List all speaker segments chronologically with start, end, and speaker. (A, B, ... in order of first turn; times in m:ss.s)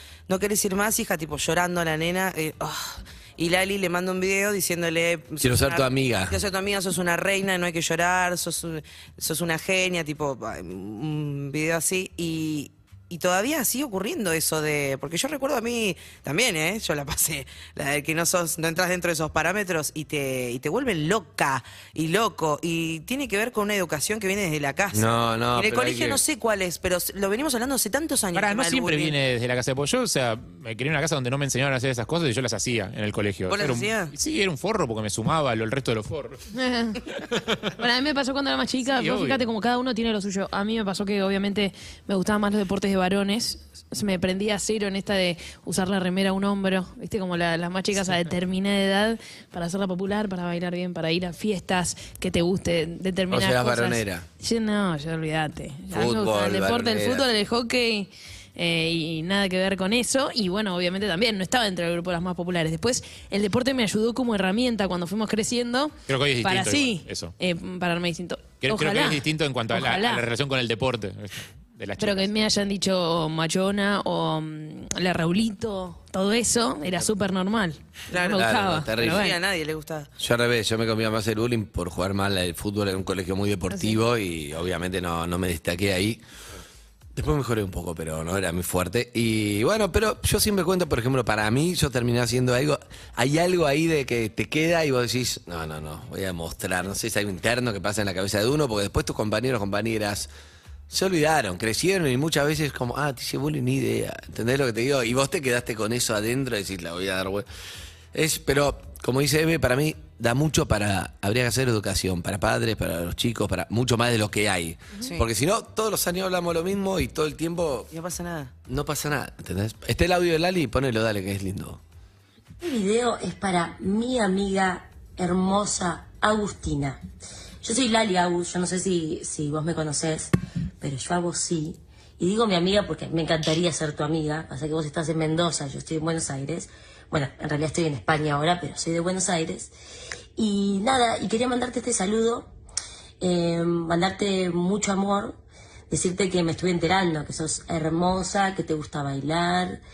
0:00.3-0:29.2 A
0:05.4-0:06.4 B
0:24.9-0:26.2 B
0:28.3-0:36.4 C
0:33.5-0:34.1 A
0:36.5-0:37.0 D
0:37.3-0:37.6 C
0:37.8-1:10.2 D
0:38.9-0:39.4 C
0:53.3-0:54.2 B
0:55.9-0:57.3 B
1:06.1-1:07.3 C
1:08.6-1:12.3 C
1:12.0-1:19.4 D
1:18.1-1:20.1 A
1:18.3-1:19.3 B
1:20.2-1:26.2 B
1:23.7-1:24.0 D
1:27.1-1:40.3 B
1:40.9-1:47.4 B
1:48.1-1:57.9 B
1:57.9-1:58.5 A
1:58.7-2:01.8 B
2:02.6-2:07.0 E
2:07.6-2:19.7 E
2:20.4-2:22.5 E
2:23.2-2:25.4 E
2:25.9-2:29.8 E